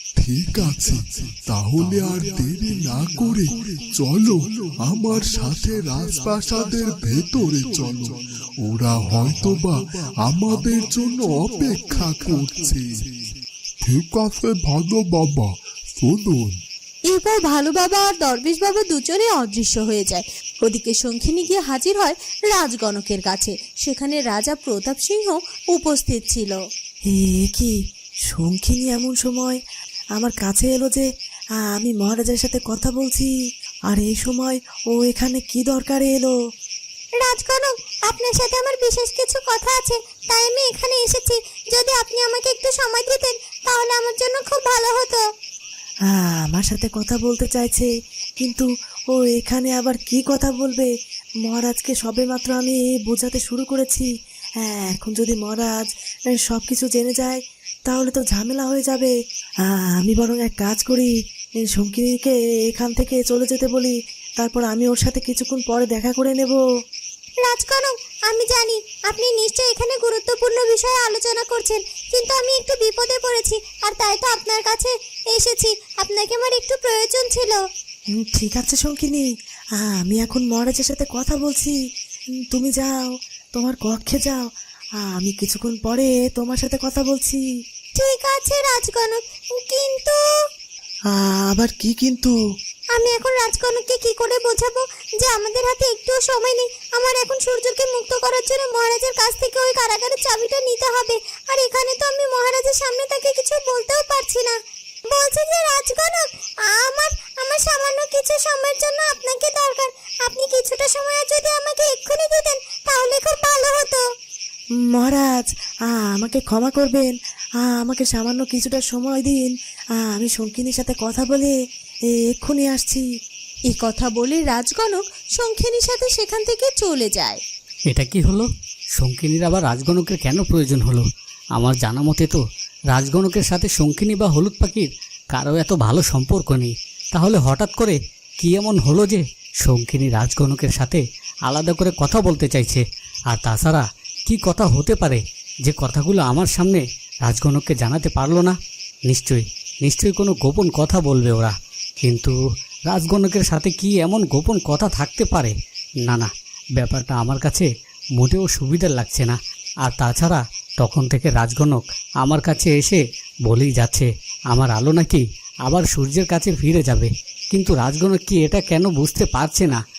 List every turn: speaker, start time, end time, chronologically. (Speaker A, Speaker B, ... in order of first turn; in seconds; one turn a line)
Speaker A: 0.2-8.0
Speaker A: 8.6-9.7
Speaker A: 10.3-12.8
Speaker B: 17.1-26.6
Speaker C: 27.1-27.7
Speaker C: 28.3-29.6
Speaker C: 30.2-31.0
Speaker C: 31.7-33.3
Speaker C: 33.9-36.3
Speaker B: 37.2-45.2
Speaker C: 46.1-47.9
Speaker C: 48.4-50.9
Speaker C: 51.4-54.1
Speaker C: 54.6-55.9
Speaker C: 56.4-59.1
Speaker C: 59.7-61.1
Speaker C: 61.7-66.6
Speaker B: 67.4-77.6
Speaker C: 78.1-79.2
Speaker C: 79.8-81.7
Speaker C: 82.5-84.4
Speaker C: 85.0-87.4
Speaker B: 88.0-90.2
Speaker C: 91.1-92.3
Speaker B: 92.9-104.6
Speaker B: 105.1-114.0
Speaker C: 114.9-121.5
Speaker C: 122.1-123.0
Speaker B: 123.7-127.4
Speaker D: 127.9-128.4
Speaker D: 129.0-131.0
Speaker D: 131.6-132.4
Speaker D: 132.9-148.6
Speaker D: 149.1-152.3
Speaker D: 152.9-169.8